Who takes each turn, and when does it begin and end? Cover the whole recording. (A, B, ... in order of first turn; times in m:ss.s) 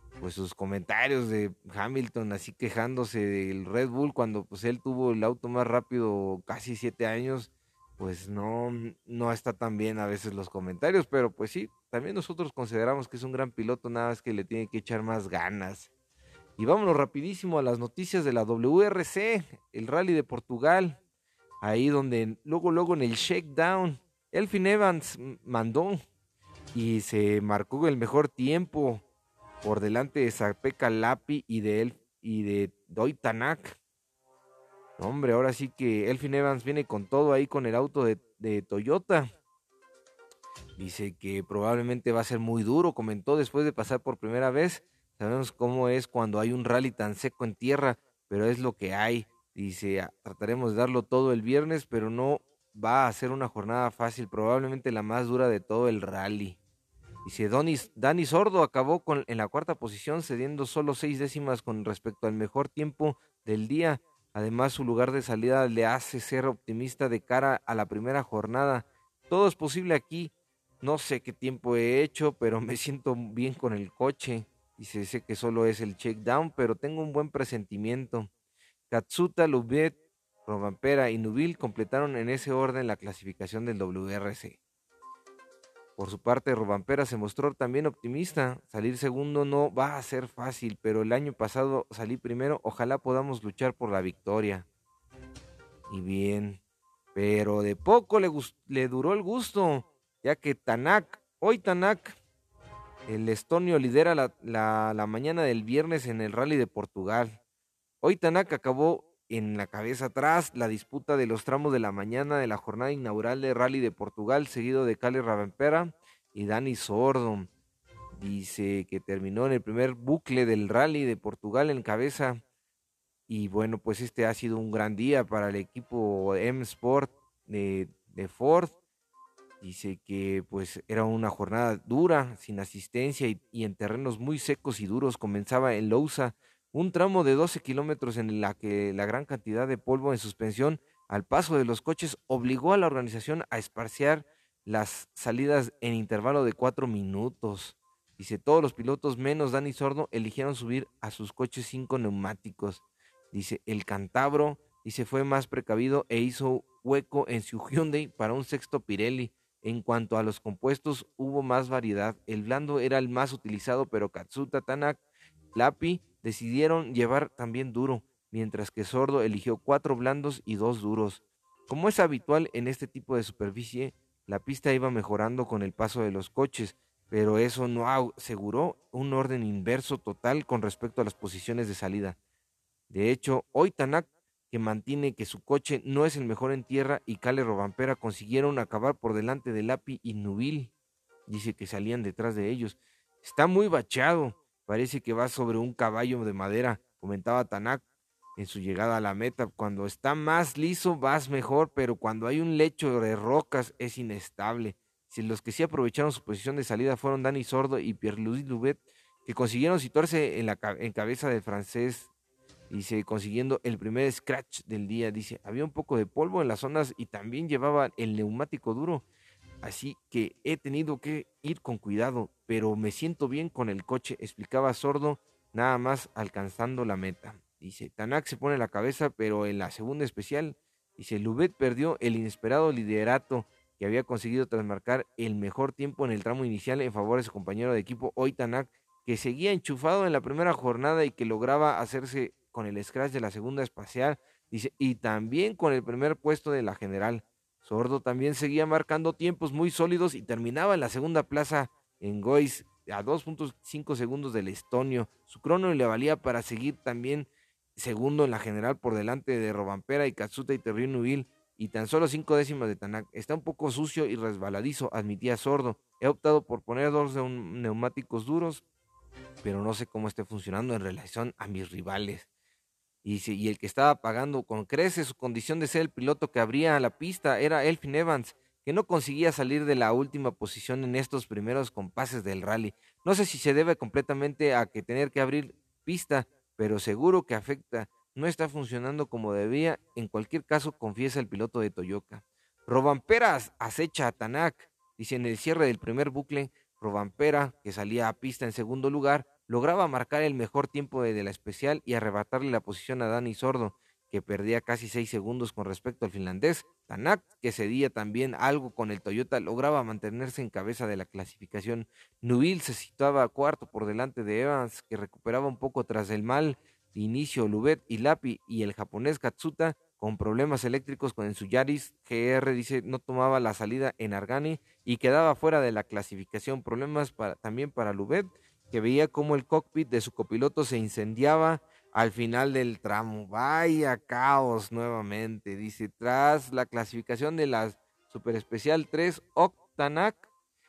0:00.2-0:15.9 A
0:16.6-0:21.0 A
0:21.6-0:26.0 A
0:26.7-0:29.0 A
0:29.6-0:33.8 A
0:35.0-0:39.3 A
0:40.8-0:56.6 A
0:57.2-1:18.3 A
1:18.9-1:24.6 A
1:26.0-1:34.7 A
1:35.9-1:36.6 A
1:37.2-1:42.2 A
1:43.1-1:47.4 A
1:48.0-1:57.5 A
1:58.1-2:02.4 A
2:03.3-2:08.8 A
2:09.6-2:45.0 A
2:45.5-3:02.2 A
3:02.9-3:10.7 A
3:11.3-3:17.8 A
3:18.4-3:32.1 A
3:32.7-3:39.1 A
3:39.6-4:28.6 A
4:29.4-4:32.3 A
4:33.0-5:40.3 A